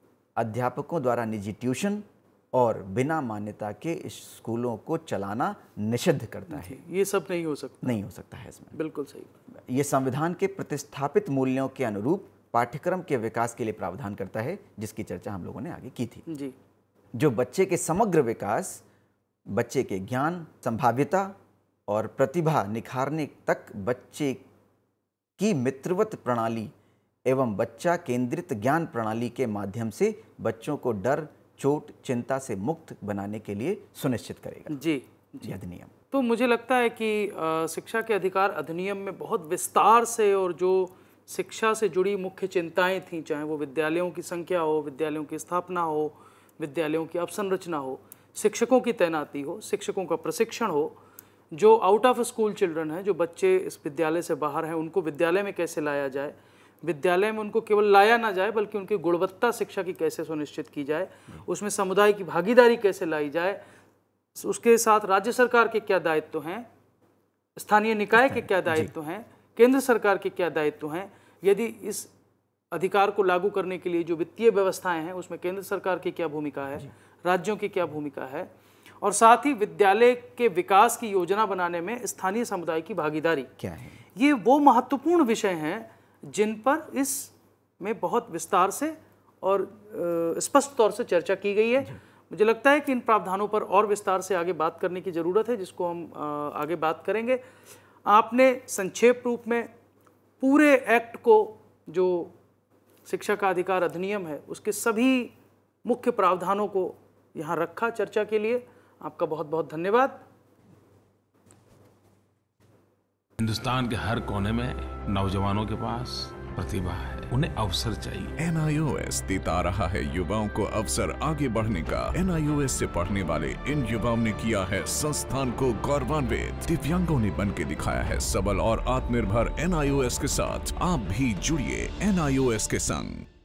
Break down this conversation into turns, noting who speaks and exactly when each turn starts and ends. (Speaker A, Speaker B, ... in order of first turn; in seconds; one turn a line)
Speaker A: 0.4-6.8
Speaker B: 6.5-8.0
Speaker A: 7.8-8.8
Speaker B: 8.7-9.3
Speaker A: 9.5-16.2
Speaker B: 16.3-16.5
Speaker A: 17.1-18.8
Speaker A: 19.5-21.4
Speaker A: 21.9-24.4
Speaker A: 25.4-26.7
Speaker A: 27.3-34.8
Speaker B: 34.7-35.5
Speaker A: 35.4-35.9
Speaker B: 36.1-51.0
Speaker B: 51.5-63.6
Speaker B: 64.3-66.7
Speaker B: 67.6-72.1
Speaker A: 68.2-68.9
Speaker B: 72.7-83.5
Speaker A: 83.6-84.0
Speaker B: 84.2-97.4
Speaker B: 98.1-99.7
Speaker B: 100.4-102.3
Speaker B: 103.1-105.3
Speaker B: 105.8-110.2
Speaker C: 113.4-118.3
Speaker D: 118.4-133.3